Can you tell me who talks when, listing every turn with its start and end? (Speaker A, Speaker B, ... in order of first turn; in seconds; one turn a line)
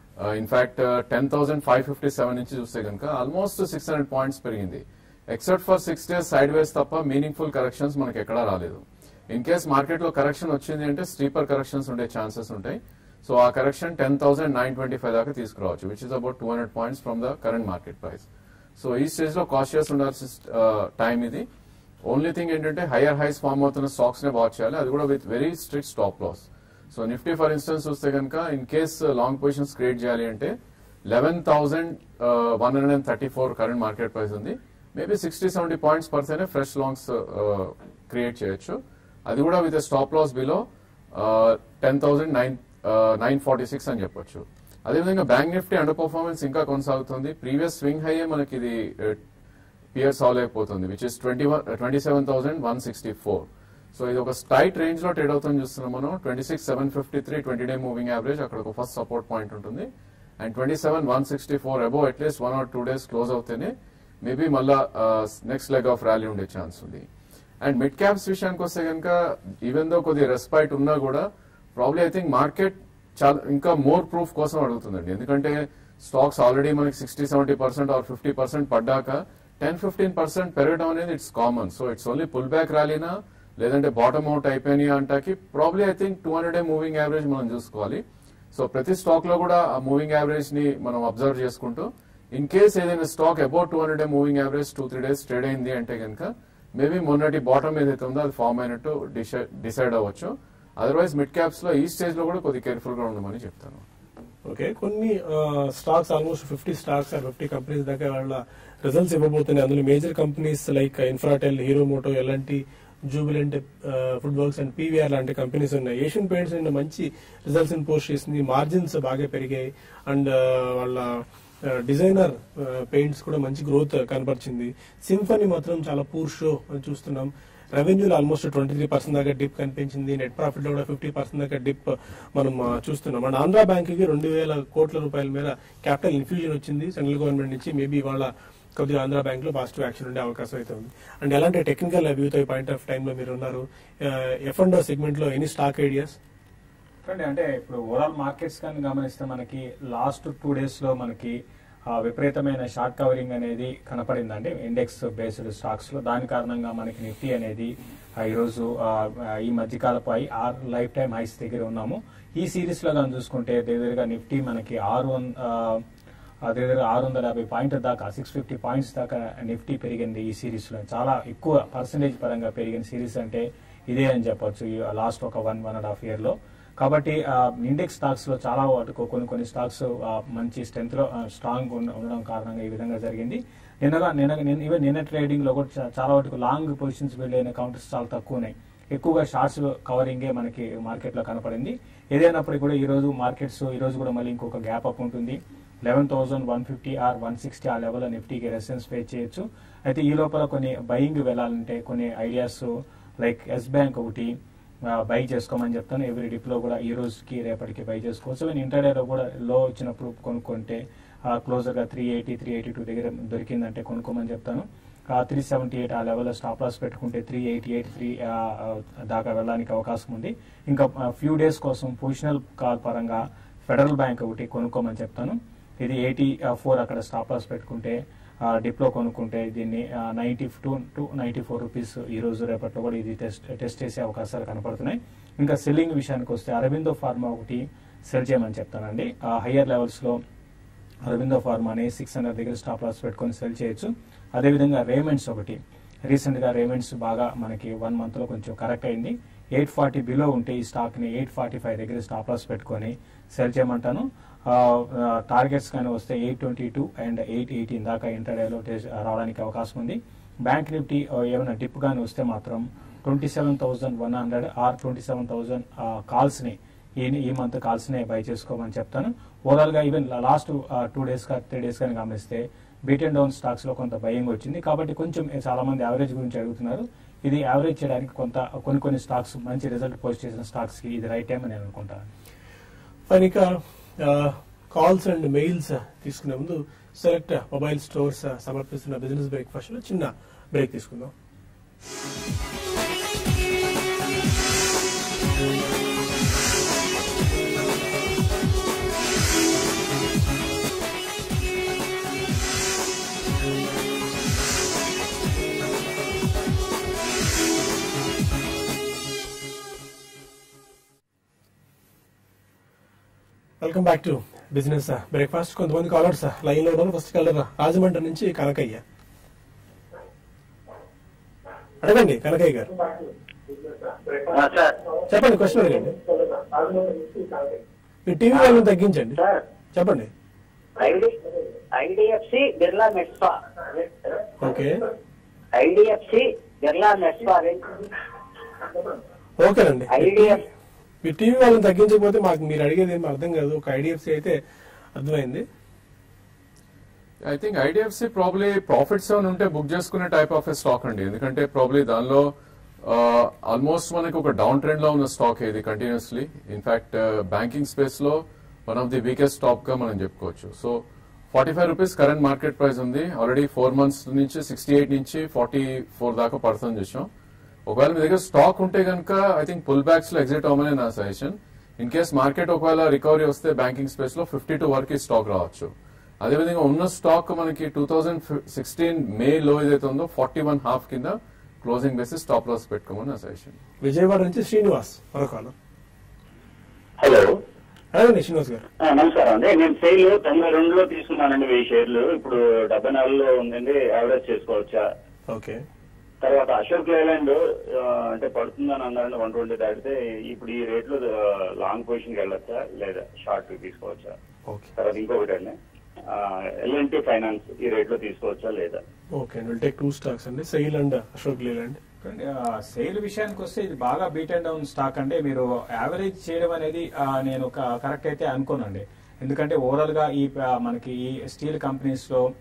Speaker A: 0.2-21.5
Speaker A: 22.1-30.5
Speaker A: 31.1-49.2
Speaker A: 49.9-67.0
Speaker A: 67.6-103.8
Speaker B: 104.5-146.2
Speaker C: 147.1-151.3
Speaker C: 151.9-165.8
Speaker C: 166.5-202.7
Speaker C: 203.2-204.3
Speaker C: 204.9-228.0
Speaker C: 228.5-240.2
Speaker C: 241.1-245.6
Speaker C: 246.1-282.1
Speaker B: 283.1-291.1
Speaker B: 313.6-318.8
Speaker B: 321.8-322.7
Speaker D: 324.1-324.9
Speaker B: 325.1-326.0
Speaker B: 328.1-329.2
Speaker B: 329.7-330.1
Speaker D: 330.8-331.1
Speaker D: 331.7-334.2
Speaker B: 334.4-334.8
Speaker D: 335.5-337.8
Speaker B: 339.4-340.4
Speaker D: 339.9-340.4
Speaker B: 341.0-344.4
Speaker B: 344.9-345.4
Speaker A: 347.2-352.3
Speaker A: 352.8-367.1
Speaker A: 367.7-383.6
Speaker B: 383.8-385.5
Speaker E: 387.0-387.3
Speaker B: 387.9-388.6
Speaker E: 388.8-394.8
Speaker B: 395.3-395.6
Speaker E: 396.2-404.1
Speaker E: 404.8-405.6
Speaker E: 406.1-408.8
Speaker B: 409.1-411.8
Speaker C: 412.0-422.2